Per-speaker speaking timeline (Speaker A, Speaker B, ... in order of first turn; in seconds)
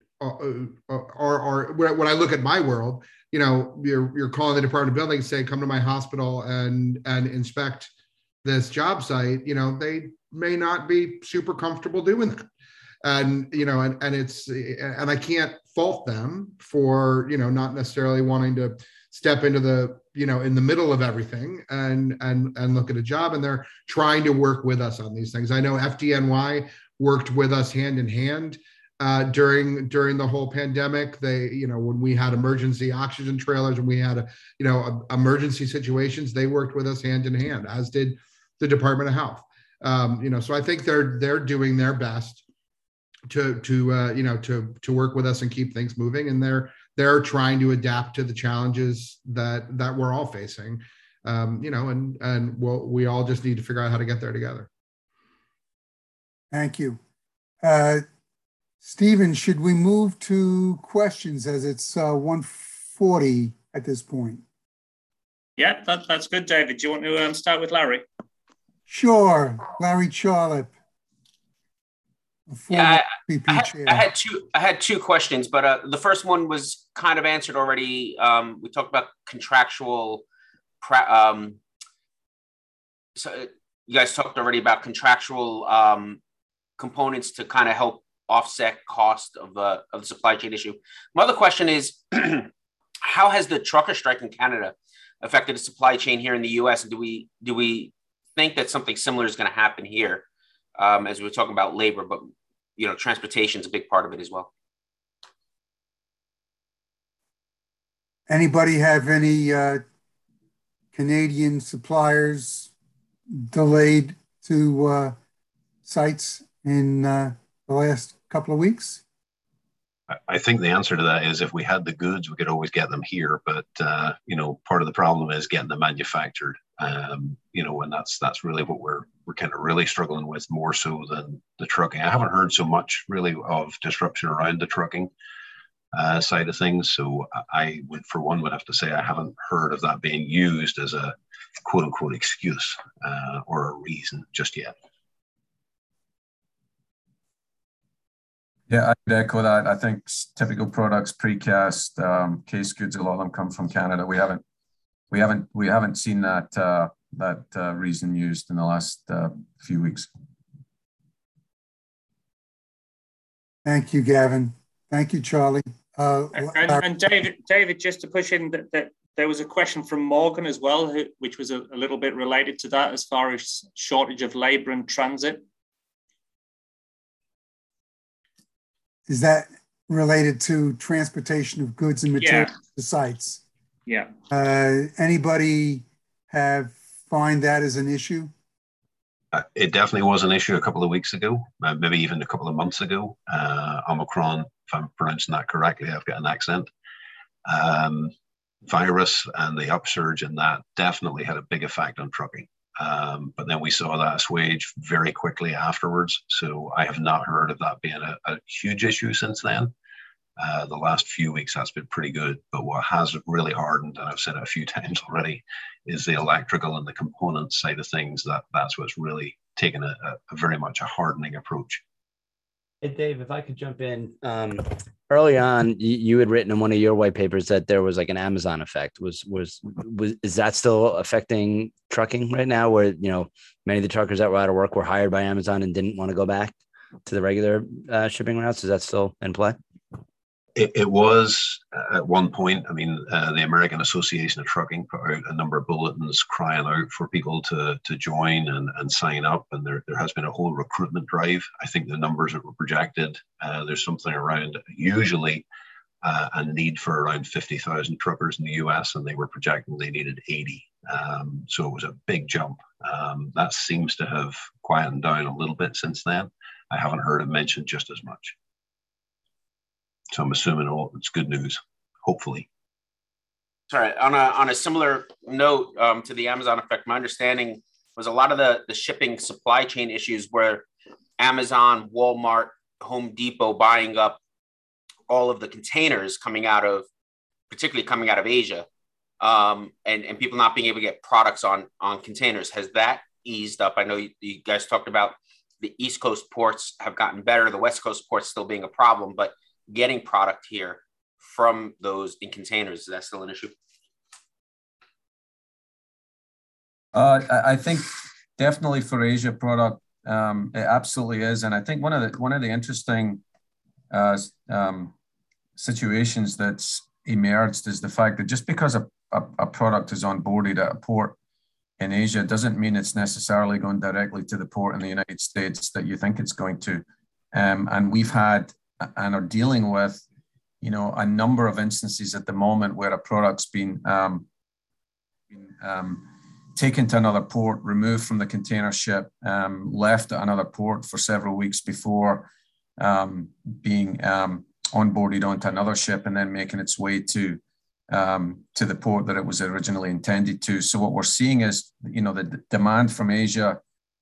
Speaker A: 0.2-7.9, 8.4-12.5, 13.0-42.4, 43.3-54.7
Speaker B: 56.5-57.0, 57.6-58.0, 58.8-64.4, 68.9-70.7, 72.5-74.1, 108.3-109.8, 110.9-112.7, 113.3-115.2, 115.8-119.0, 163.6-166.8, 179.1-183.4, 184.3-188.3
Speaker C: 65.6-68.0, 166.3-175.4, 182.2-182.5
Speaker D: 72.7-80.2, 80.8-81.6, 83.2-86.2, 86.8-92.5, 93.0-100.2, 100.8-104.5, 273.7-280.6, 281.2-284.2, 285.1-286.9, 287.5-288.7, 289.2-303.5
Speaker E: 120.1-135.1, 135.9-144.7, 189.3-196.7, 197.4-198.1, 198.7-209.7, 210.4-221.8, 240.5-255.4, 256.0-268.4, 270.1-272.5
Speaker F: 148.7-154.4, 155.1-160.1, 306.9-313.2, 313.9-314.9, 315.6-321.2, 321.8-330.0, 330.6-334.2, 335.3-353.6
Speaker G: 222.8-236.5, 237.1-239.6